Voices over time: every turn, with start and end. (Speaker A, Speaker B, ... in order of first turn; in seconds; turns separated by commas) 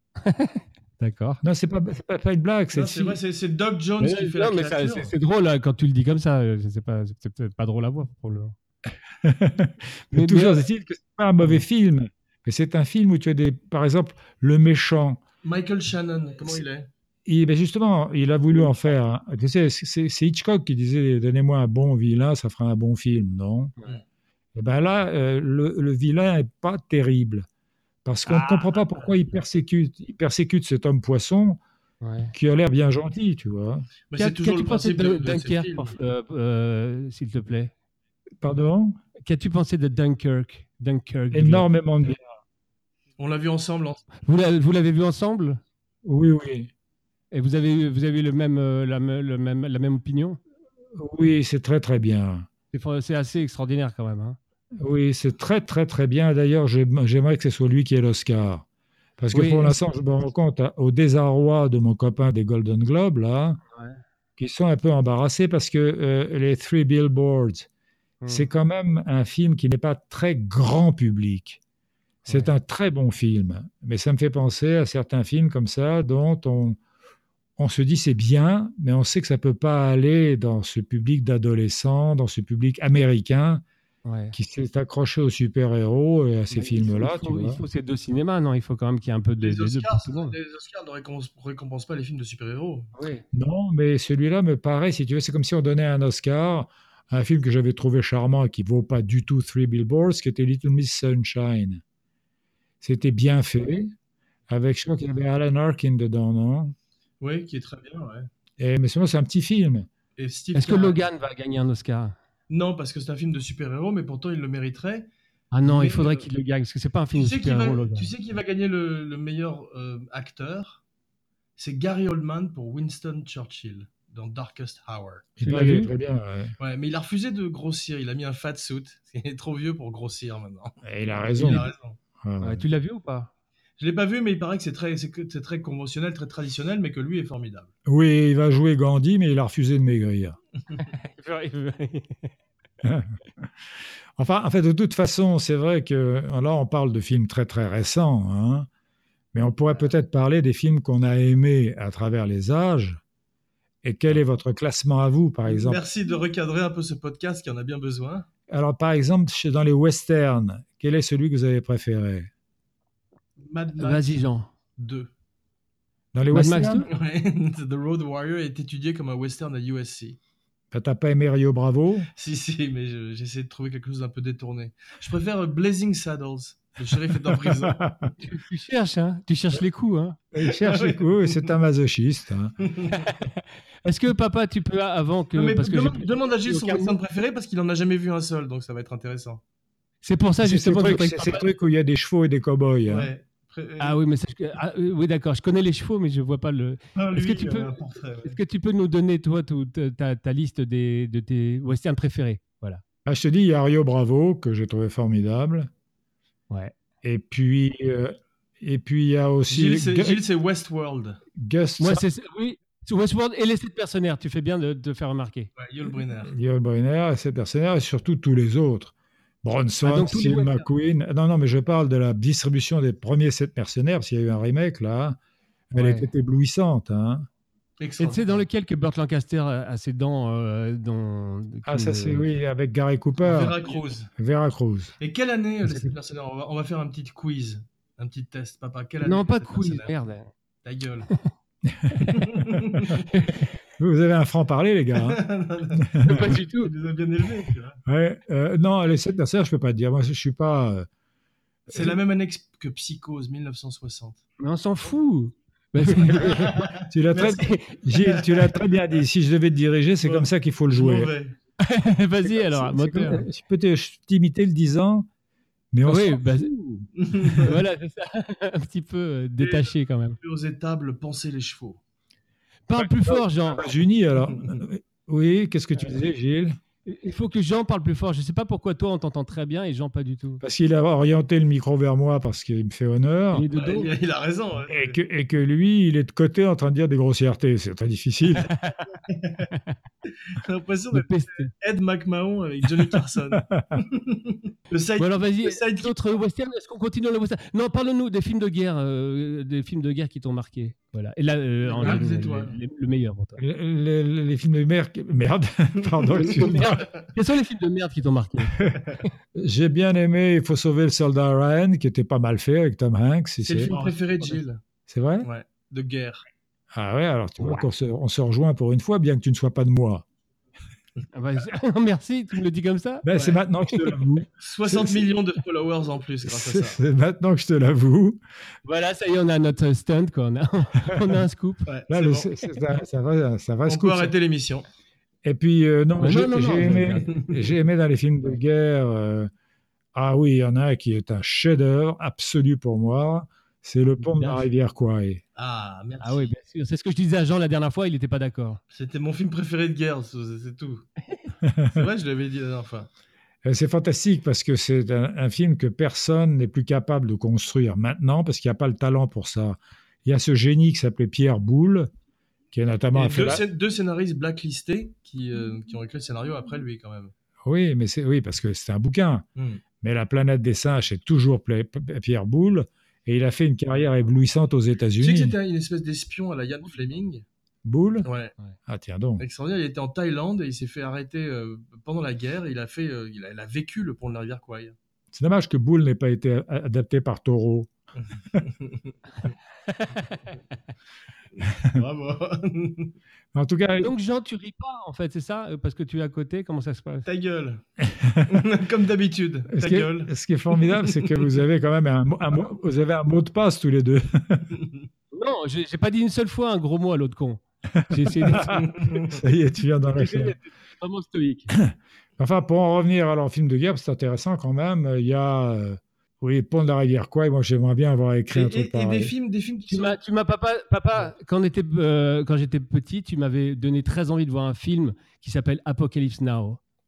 Speaker A: 0.2-1.4, Speaker B: 1.4-3.2, Speaker C: 2.7-5.1, Speaker A: 4.0-8.6, Speaker B: 9.2-15.2, Speaker A: 10.1-10.7, Speaker C: 15.4-16.9, Speaker B: 17.3-23.8, Speaker B: 24.6-27.5, Speaker B: 28.1-31.6, Speaker A: 28.3-28.8, Speaker A: 32.0-32.3, Speaker B: 32.3-33.9, Speaker C: 34.1-36.0, Speaker A: 34.2-37.7, Speaker B: 38.4-39.0, Speaker A: 39.2-41.7, Speaker B: 41.3-42.2, Speaker C: 43.2-44.1, Speaker A: 44.2-45.6, Speaker B: 46.0-46.7, Speaker A: 47.3-50.4, Speaker B: 51.0-52.5, Speaker A: 52.7-54.4, Speaker B: 54.8-58.6, Speaker B: 59.2-63.6, Speaker A: 59.3-59.8, Speaker B: 64.4-67.7, Speaker A: 68.2-68.5, Speaker B: 68.3-71.6, Speaker A: 72.3-72.5, Speaker B: 72.3-76.8, Speaker B: 77.6-83.6, Speaker A: 84.0-84.3, Speaker B: 84.3-87.6, Speaker A: 86.5-90.3, Speaker C: 89.4-92.9, Speaker A: 93.0-93.2, Speaker B: 93.3-101.8, Speaker B: 102.8-103.9, Speaker B: 104.5-106.8, Speaker C: 107.2-108.3, Speaker B: 108.6-109.9, Speaker C: 110.2-111.0, Speaker A: 110.5-112.2, Speaker C: 112.5-115.1, Speaker A: 115.5-118.1, Speaker C: 115.7-116.3, Speaker C: 117.1-120.8, Speaker C: 121.6-125.3, Speaker B: 125.4-126.5, Speaker A: 125.4-125.9, Speaker C: 126.6-132.0, Speaker B: 130.8-131.7, Speaker B: 132.2-132.7, Speaker A: 132.4-133.3, Speaker C: 133.8-137.7, Speaker B: 137.9-140.4, Speaker A: 140.8-142.3, Speaker B: 142.8-143.5, Speaker B: 144.2-148.7, Speaker B: 149.3-153.0, Speaker B: 153.8-155.8, Speaker C: 155.5-158.3, Speaker B: 158.5-162.3, Speaker C: 163.4-165.1, Speaker A: 163.8-164.5, Speaker B: 166.1-166.9, Speaker A: 166.3-166.9, Speaker C: 166.9-170.2, Speaker B: 170.7-172.1, Speaker C: 172.2-178.1, Speaker B: 177.3-178.1, Speaker A: 178.2-180.2, Speaker B: 180.3-182.6, Speaker C: 180.4-181.5, Speaker C: 182.6-183.1, Speaker A: 182.9-187.0, Speaker C: 185.3-189.4, Speaker A: 190.0-191.4, Speaker B: 190.4-193.1, Speaker C: 192.9-194.0, Speaker A: 193.8-197.7, Speaker C: 197.0-198.4, Speaker A: 198.2-202.8, Speaker B: 203.1-205.7, Speaker B: 207.0-210.2, Speaker C: 209.5-211.2, Speaker B: 211.4-212.0, Speaker A: 211.8-215.5, Speaker C: 215.6-216.3, Speaker B: 216.2-225.2, Speaker A: 219.8-220.7, Speaker B: 225.7-227.3, Speaker A: 225.8-226.1, Speaker C: 227.8-228.4, Speaker A: 228.0-232.3, Speaker B: 231.7-233.6, Speaker C: 233.2-234.1, Speaker B: 234.2-234.9, Speaker C: 235.0-239.9, Speaker A: 239.0-240.3, Speaker C: 240.6-241.1, Speaker B: 241.7-243.0, Speaker C: 242.1-243.1, Speaker A: 243.1-243.4, Speaker B: 243.8-245.2, Speaker C: 244.9-247.8, Speaker B: 245.8-246.3, Speaker A: 246.0-246.7, Speaker B: 247.9-250.9, Speaker C: 251.7-254.2, Speaker B: 251.7-252.0, Speaker A: 254.4-256.7, Speaker B: 255.9-261.1, Speaker C: 256.2-258.6, Speaker C: 260.0-261.4, Speaker A: 261.6-263.3, Speaker B: 262.2-265.1, Speaker B: 265.7-266.6, Speaker A: 265.9-266.9, Speaker C: 267.0-267.6, Speaker A: 267.4-270.2, Speaker C: 269.4-271.8, Speaker A: 272.7-273.7, Speaker B: 272.8-276.6, Speaker C: 274.2-274.6, Speaker A: 276.9-280.4, Speaker B: 280.4-283.5, Speaker A: 283.3-283.9, Speaker C: 283.6-285.0, Speaker B: 284.7-288.5, Speaker A: 288.5-288.8, Speaker C: 289.1-289.5, Speaker A: 289.5-289.8, Speaker C: 290.3-296.0, Speaker A: 290.9-291.5, Speaker B: 293.3-293.8, Speaker A: 295.0-303.4, Speaker C: 301.6-302.6, Speaker B: 303.4-306.9, Speaker C: 305.9-306.9, Speaker A: 306.2-308.6, Speaker B: 309.4-313.7, Speaker C: 313.4-314.6, Speaker A: 313.7-314.4, Speaker B: 314.9-315.3, Speaker C: 315.2-316.2, Speaker B: 316.7-320.1, Speaker A: 321.1-323.1, Speaker B: 323.0-325.1, Speaker C: 323.1-323.4, Speaker C: 324.4-326.8, Speaker B: 326.3-328.2, Speaker A: 328.6-331.7, Speaker C: 331.7-332.3, Speaker B: 331.9-334.1, Speaker C: 333.7-334.7, Speaker B: 335.2-339.3, Speaker A: 336.0-337.1, Speaker C: 337.1-337.4, Speaker B: 339.9-345.2, Speaker A: 344.0-344.4, Speaker C: 345.4-346.3, Speaker A: 346.0-348.6, Speaker C: 348.7-350.9, Speaker B: 351.4-351.8, Speaker C: 351.7-352.9, Speaker B: 353.4-361.9, Speaker B: 362.5-363.4, Speaker C: 362.9-367.1, Speaker B: 367.4-369.2, Speaker C: 369.4-369.6, Speaker B: 369.8-375.4, Speaker C: 375.0-377.2, Speaker B: 377.6-378.1, Speaker C: 378.1-378.3, Speaker B: 378.7-379.2, Speaker C: 379.2-384.8, Speaker B: 385.1-387.7, Speaker C: 388.0-389.3, Speaker A: 389.7-390.2, Speaker C: 391.4-392.9, Speaker B: 393.3-393.9, Speaker A: 393.8-397.1, Speaker C: 397.1-397.6, Speaker B: 397.8-398.4, Speaker C: 398.3-401.3, Speaker B: 399.5-404.5, Speaker C: 404.5-404.8, Speaker A: 405.1-408.7, Speaker B: 407.8-410.4, Speaker C: 408.4-409.2, Speaker A: 409.9-411.6, Speaker B: 411.5-419.1, Speaker C: 418.3-420.0, Speaker A: 419.7-426.6